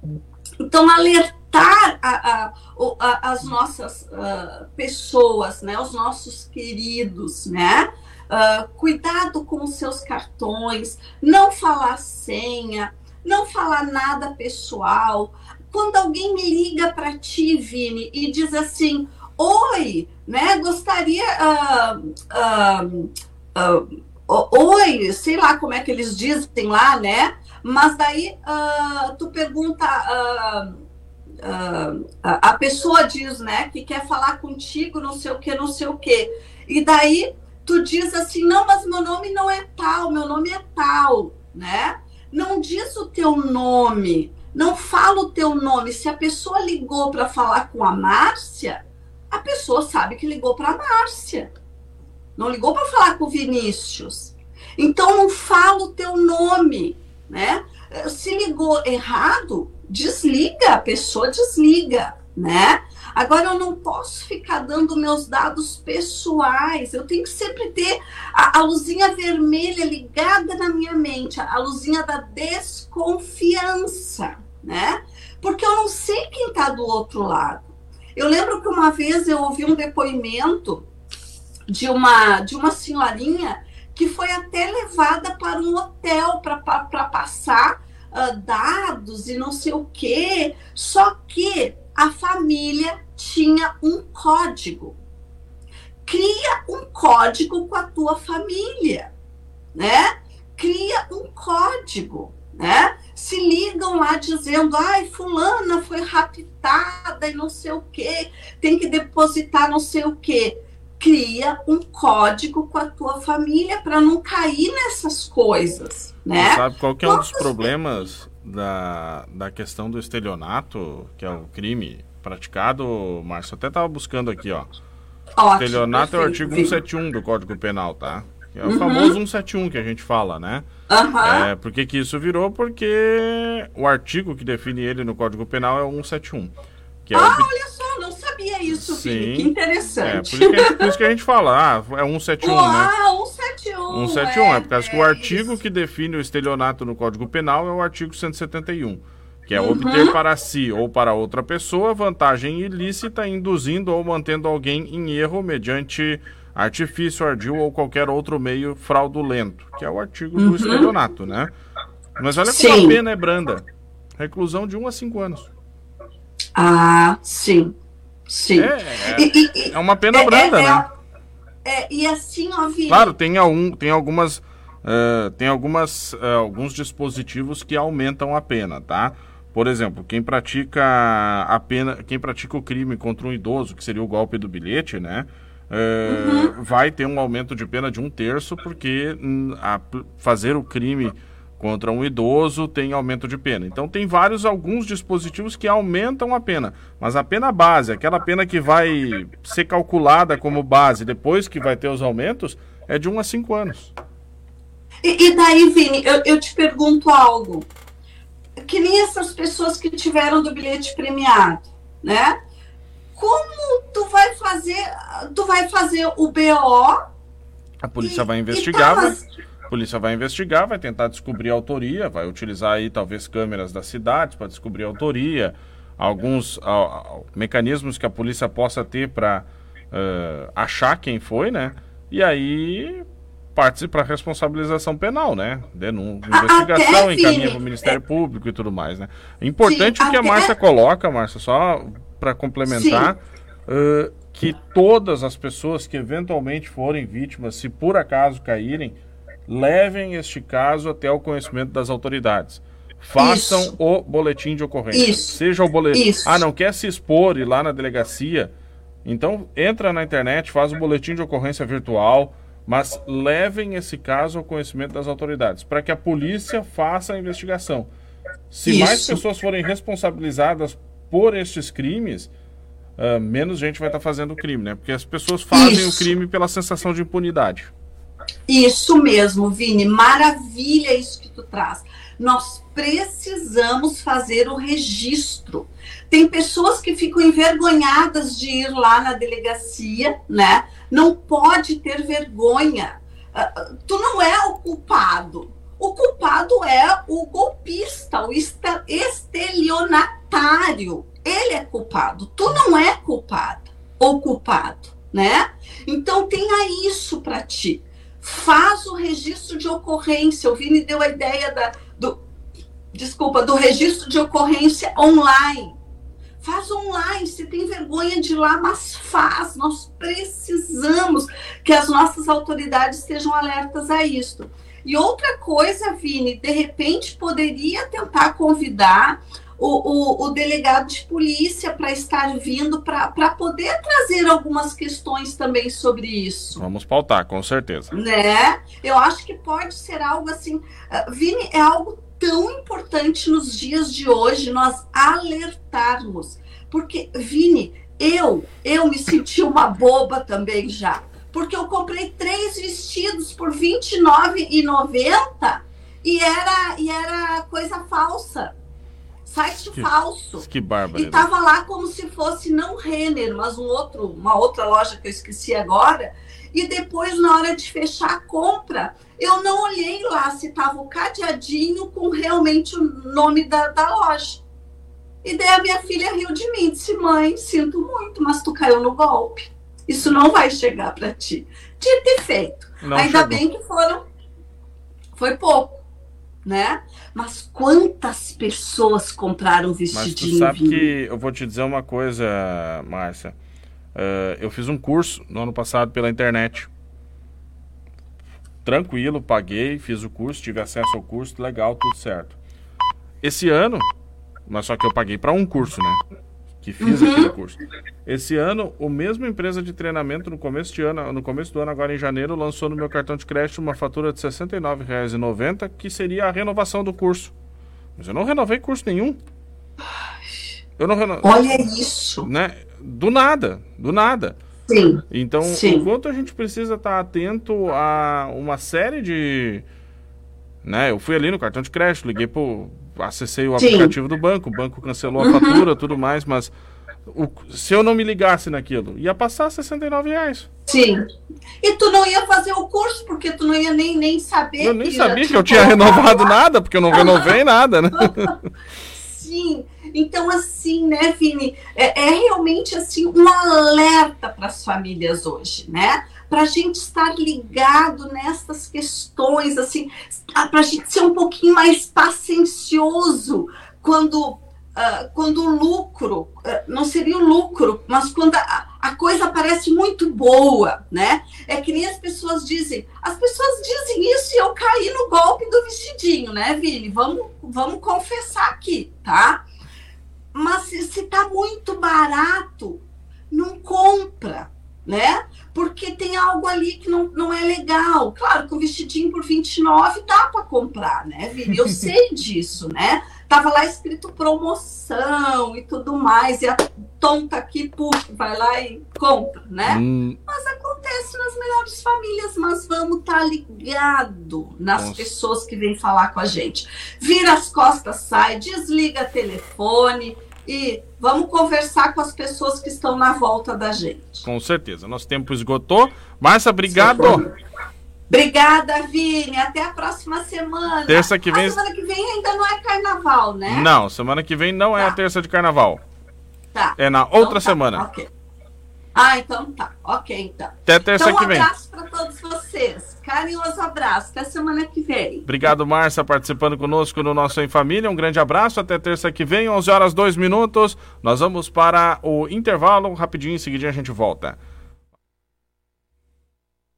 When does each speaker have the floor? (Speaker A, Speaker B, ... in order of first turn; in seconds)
Speaker A: 0.6-30.8, 31.4-51.5, 52.4-80.8, 81.7-95.0, 96.0-99.1, 99.8-117.5, 125.4-126.8, 128.6-129.2, 130.9-131.5, 137.1-140.9, 142.4-145.5, 149.6-150.2, 160.3-160.9, 162.5-163.0, 166.6-167.7, 168.3-170.8, 171.6-173.1, 186.0-186.5, 205.0-207.7, 208.6-212.3, 213.1-217.0, 218.0-219.2, 236.3-237.9, 239.6-240.5, 242.7-243.1, 253.2-253.7, 254.9-255.3, 255.9-256.4, 268.6-269.2, 275.5-276.1, 278.5-312.2, 312.9-315.7, 316.4-336.6, 337.9-358.5, 359.2-374.4, 375.2-384.0, 385.1-385.8, 386.4-390.9, 406.8-407.3, 421.2-422.3, 424.7-425.9, 433.6-433.9, 435.2-435.6, 440.7-441.0, 441.6-446.3, 446.9-447.3, 448.9-479.4, 480.3-514.2, 516.7-517.3, 518.1-523.7, 526.5-528.1, 528.9-535.3
Speaker B: 116.3-124.7, 125.6-130.7, 131.2-136.5, 137.1-137.5, 138.7-142.9, 143.9-161.5, 162.2-163.6, 164.2-165.5, 168.5-170.8, 172.9-203.9, 217.8-219.2, 219.7-258.5, 259.0-267.9, 268.5-272.3, 273.0-277.7, 336.6-337.9, 359.7-361.3, 382.8-383.4, 389.9-393.4, 393.9-396.7, 398.6-402.4, 403.2-403.8, 404.5-406.0, 406.6-417.3, 418.0-419.2, 420.8-421.6, 422.2-424.4, 425.1-429.6, 430.6-436.5, 437.1-440.5, 444.6-448.4, 499.6-500.2, 504.8-505.1, 514.2-517.2, 520.9-521.6, 523.5-525.8, 526.8-527.9, 530.6-531.5, 535.2-544.4